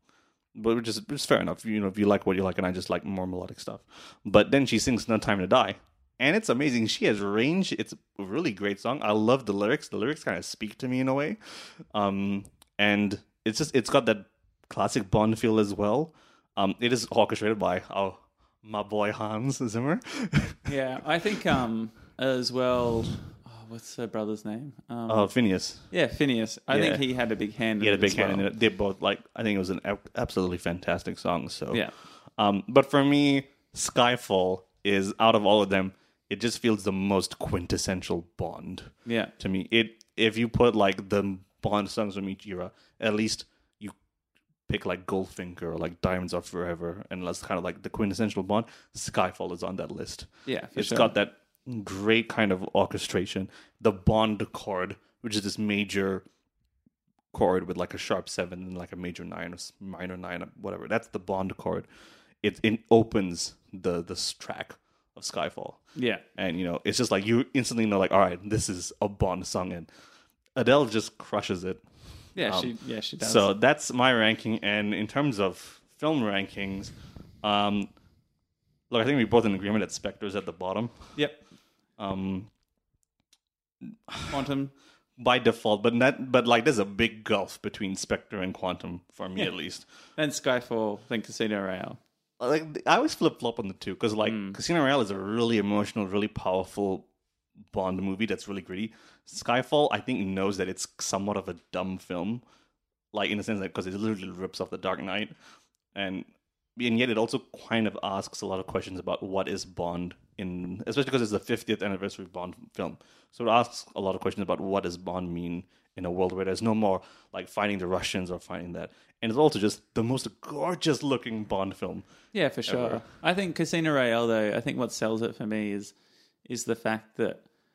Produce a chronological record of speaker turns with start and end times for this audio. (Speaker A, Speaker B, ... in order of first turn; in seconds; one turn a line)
Speaker A: 0.5-20.7
Speaker B: 20.6-25.3
Speaker A: 25.1-25.9
Speaker B: 25.9-28.4
Speaker A: 26.7-27.0
Speaker A: 27.8-31.8
Speaker A: 32.4-43.9
Speaker B: 39.0-39.3
Speaker A: 44.7-56.2
Speaker B: 50.5-51.1
Speaker A: 57.3-61.9
Speaker A: 62.4-65.8
Speaker B: 65.9-66.2
Speaker A: 66.3-69.9
Speaker A: 70.5-71.8
Speaker B: 72.3-73.5
Speaker A: 72.4-77.9
Speaker A: 78.9-81.1
Speaker B: 81.1-81.4
Speaker A: 82.0-82.5
Speaker A: 84.1-84.3
Speaker B: 84.3-84.7
Speaker A: 85.2-89.8
Speaker B: 90.2-92.0
Speaker A: 92.4-97.0
Speaker B: 94.2-94.6
Speaker A: 97.7-102.4
Speaker A: 103.1-105.3
Speaker A: 105.9-122.0
Speaker B: 122.3-125.9
Speaker A: 122.7-123.0
Speaker B: 126.5-127.4